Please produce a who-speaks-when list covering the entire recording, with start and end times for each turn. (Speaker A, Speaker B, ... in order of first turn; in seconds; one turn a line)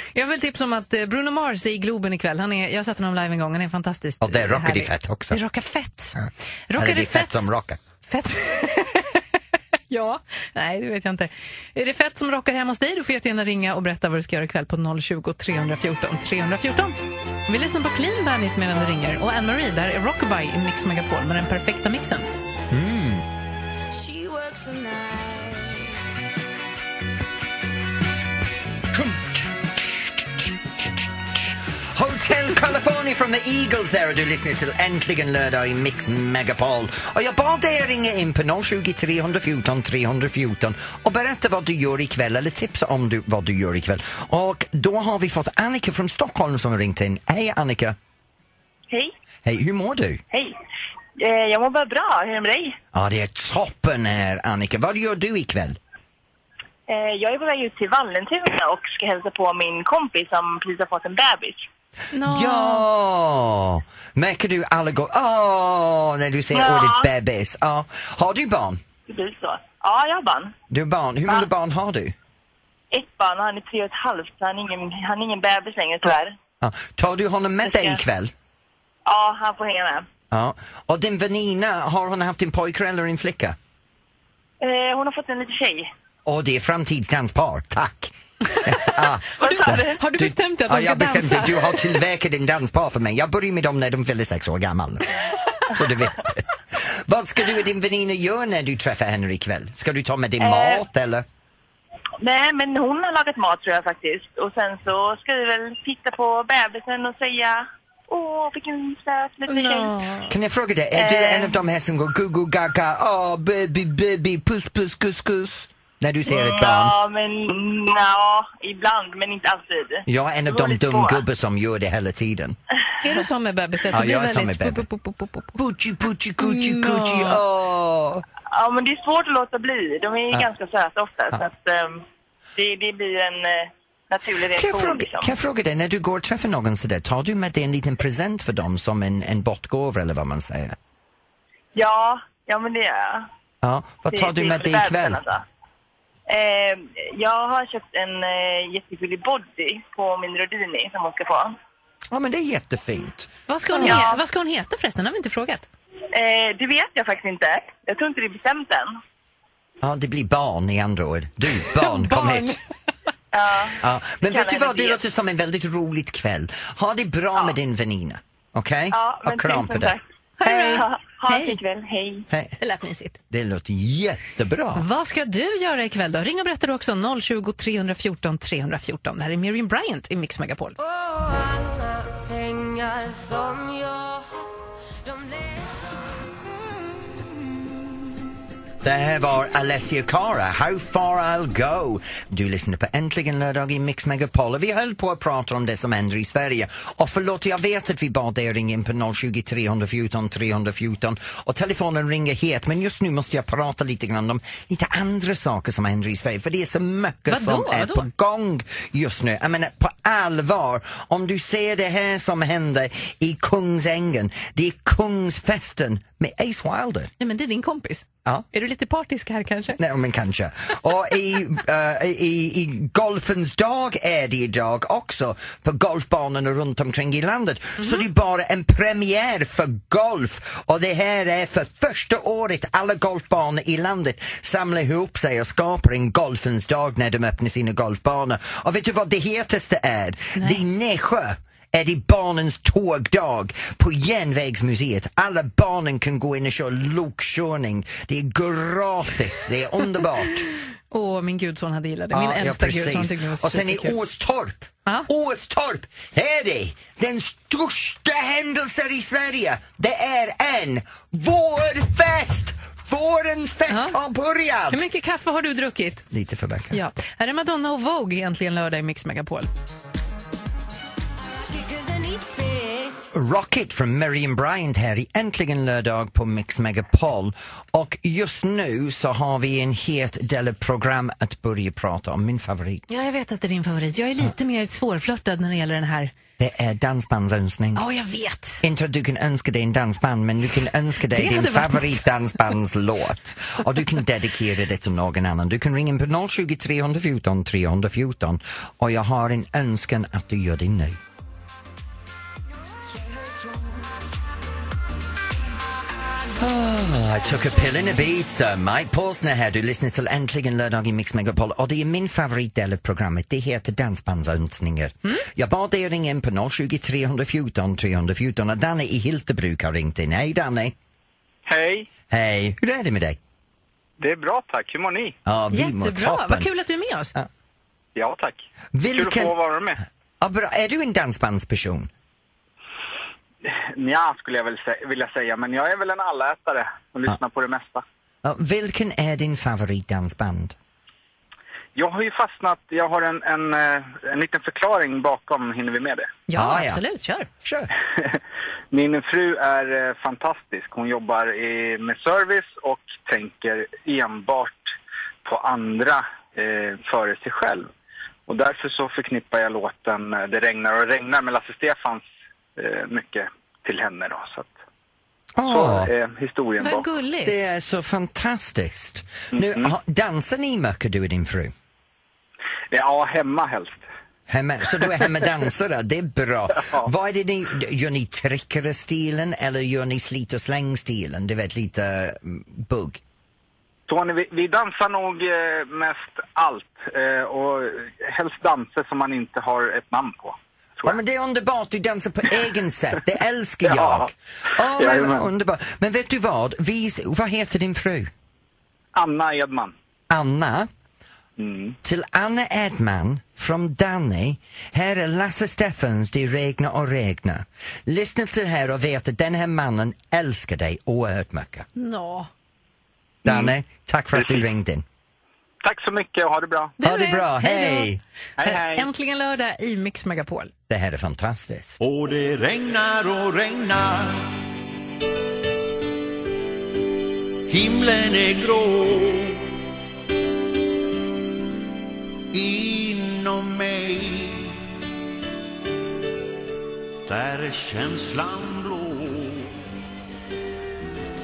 Speaker A: 0.1-6.2
Speaker B: 4.2-5.4
Speaker B: 6.2-7.8
Speaker A: 6.7-7.5
Speaker A: 8.1-9.2
Speaker A: 9.9-22.3
Speaker B: 22.7-23.2
Speaker C: 24.0-25.1
Speaker B: 28.9-48.0
Speaker B: 49.4-50.2
Speaker D: 51.2-52.8
Speaker B: 52.9-55.8
Speaker D: 56.9-61.7
Speaker A: 62.1-62.9
Speaker B: 62.2-68.8
Speaker D: 66.5-67.1
Speaker D: 69.1-70.5
Speaker B: 70.7-72.1
Speaker D: 72.9-76.3
Speaker B: 76.6-78.3
Speaker D: 77.6-78.0
Speaker D: 79.0-80.1
Speaker B: 80.3-83.6
Speaker D: 84.6-85.9
Speaker B: 86.2-101.2
Speaker D: 89.4-90.0
Speaker A: 89.5-92.0
Speaker D: 100.4-100.8
Speaker D: 102.2-109.9
Speaker A: 109.5-110.3
Speaker B: 110.3-116.9
Speaker D: 110.9-111.5
Speaker D: 116.3-121.2
Speaker B: 120.1-122.6
Speaker A: 123.0-125.5
Speaker B: 123.9-124.8
Speaker B: 125.5-128.2
Speaker A: 126.4-127.4
Speaker D: 128.5-132.0
Speaker D: 132.6-135.3
Speaker B: 134.5-140.8
Speaker D: 141.7-143.3
Speaker B: 143.6-145.2
Speaker D: 144.1-145.4
Speaker D: 146.3-151.6
Speaker B: 152.1-154.1
Speaker A: 153.5-155.7
Speaker D: 153.8-154.2
Speaker D: 156.1-158.9
Speaker B: 159.8-162.6
Speaker A: 161.7-162.6
Speaker D: 163.3-165.0
Speaker B: 163.8-170.8
Speaker D: 168.9-172.2
Speaker A: 170.4-171.6
Speaker B: 172.3-172.6
Speaker A: 172.6-173.2
Speaker B: 173.3-174.8
Speaker A: 174.8-180.8
Speaker B: 188.8-217.1
Speaker A: 207.3-208.1
Speaker A: 217.2-219.8
Speaker B: 219.8-250.5
Speaker A: 227.8-228.0
Speaker A: 250.9-253.9
Speaker B: 252.1-264.8
Speaker A: 263.7-264.0
Speaker A: 264.7-266.1
Speaker B: 266.1-266.8
Speaker A: 266.7-269.5
Speaker C: 271.4-273.0
Speaker B: 273.1-282.9
Speaker A: 282.9-286.1
Speaker B: 286.4-287.8
Speaker A: 287.7-288.6
Speaker B: 288.6-301.0
Speaker A: 291.1-292.0
Speaker B: 306.3-320.8
Speaker E: 321.4-321.9
Speaker B: 322.1-323.2
Speaker E: 324.0-325.2
Speaker B: 325.2-326.5
Speaker A: 325.5-327.1
Speaker E: 327.9-329.8
Speaker B: 328.7-329.3
Speaker B: 330.2-331.9
Speaker E: 333.4-337.8
Speaker B: 338.2-340.6
Speaker E: 341.8-346.1
Speaker A: 346.3-347.3
Speaker B: 346.3-346.8
Speaker B: 347.4-347.7
Speaker E: 348.7-354.7
Speaker E: 355.2-357.7
Speaker E: 358.3-364.5
Speaker B: 365.4-365.9
Speaker E: 365.5-366.9
Speaker A: 366.6-367.4
Speaker B: 367.2-371.5
Speaker E: 369.3-369.7
Speaker E: 372.7-373.8
Speaker B: 374.3-383.0
Speaker E: 383.9-391.0
Speaker B: 390.8-398.1
Speaker E: 393.6-394.1
Speaker E: 394.8-395.2
Speaker E: 398.9-399.7
Speaker B: 400.1-400.7
Speaker E: 401.4-401.8
Speaker B: 401.8-411.7
Speaker A: 411.8-412.3
Speaker E: 413.2-413.5
Speaker B: 413.2-414.8
Speaker E: 414.1-414.4
Speaker E: 415.6-416.7
Speaker A: 416.8-420.5
Speaker B: 416.8-418.0
Speaker E: 418.4-418.9
Speaker B: 420.7-421.8
Speaker F: 421.8-424.4
Speaker F: 427.5-429.5
Speaker F: 432.3-434.6
Speaker F: 437.1-439.6